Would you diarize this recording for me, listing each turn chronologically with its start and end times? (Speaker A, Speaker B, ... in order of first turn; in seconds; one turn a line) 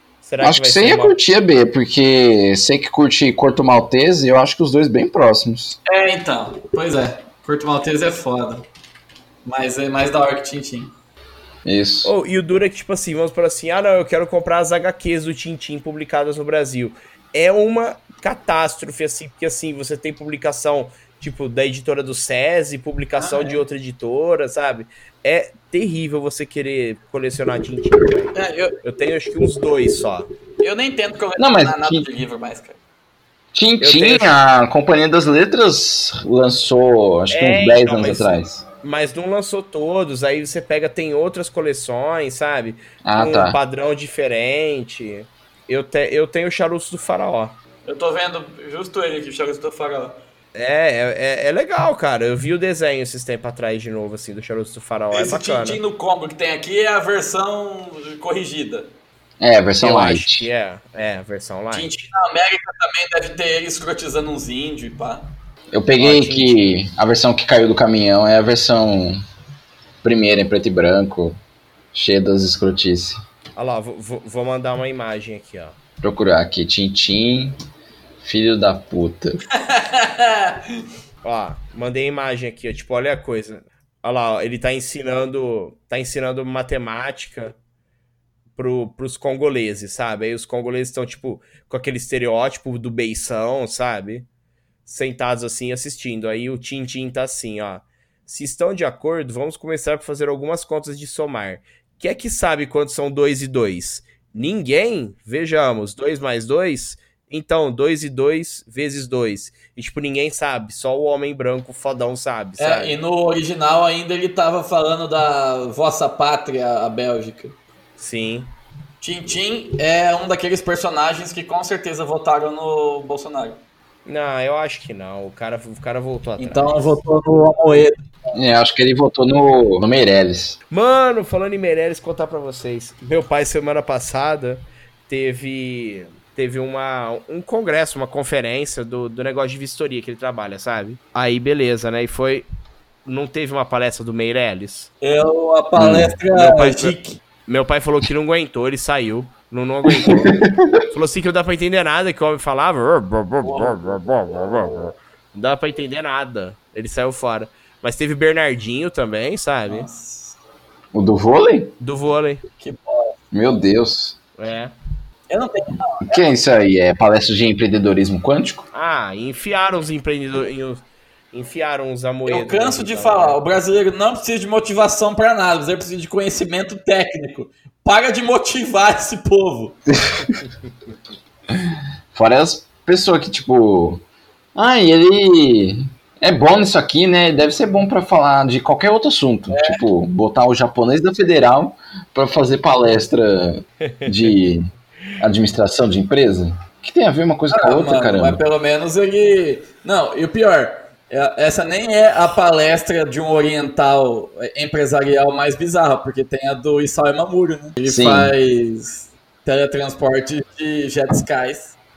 Speaker A: 0.2-1.1
Speaker B: 0.4-5.8
Speaker C: 5.8-8.6
Speaker C: 9.4-10.9
Speaker B: 11.6-12.1
Speaker A: 12.0-30.3
Speaker C: 23.2-23.6
Speaker C: 28.3-28.8
Speaker C: 30.6-32.8
Speaker B: 31.4-32.1
Speaker B: 33.5-38.6
Speaker A: 33.8-34.3
Speaker A: 37.3-47.6
Speaker B: 43.0-43.6
Speaker C: 47.9-50.2
Speaker A: 50.5-55.8
Speaker C: 55.1-58.9
Speaker B: 59.4-60.5
Speaker A: 59.8-62.0
Speaker C: 61.7-65.3
Speaker B: 65.7-69.2
Speaker A: 66.0-66.7
Speaker B: 70.0-71.4
Speaker B: 71.9-73.2
Speaker A: 73.5-75.8
Speaker B: 76.0-77.6
Speaker B: 78.2-79.4
Speaker C: 79.5-80.8
Speaker A: 81.2-87.6
Speaker A: 88.5-94.3
Speaker A: 94.8-113.0
Speaker C: 112.6-117.5
Speaker A: 118.0-118.5
Speaker C: 119.0-123.6
Speaker A: 124.0-127.0
Speaker C: 126.4-128.0
Speaker B: 128.3-130.6
Speaker A: 130.7-142.4
Speaker A: 143.0-144.9
Speaker C: 145.0-147.2
Speaker B: 145.8-146.1
Speaker A: 146.3-150.3
Speaker B: 149.9-150.7
Speaker A: 150.9-159.9
Speaker C: 153.4-154.0
Speaker C: 159.7-160.3
Speaker B: 160.9-161.7
Speaker A: 161.8-162.4
Speaker C: 162.6-163.6
Speaker B: 163.3-164.2
Speaker A: 164.4-164.7
Speaker C: 165.3-166.2
Speaker B: 166.0-168.7
Speaker A: 168.7-173.4
Speaker C: 172.3-179.8
Speaker B: 181.5-184.0
Speaker B: 184.5-194.6
Speaker C: 189.5-189.8
Speaker B: 195.2-198.4
Speaker C: 197.5-211.8
Speaker B: 207.8-208.3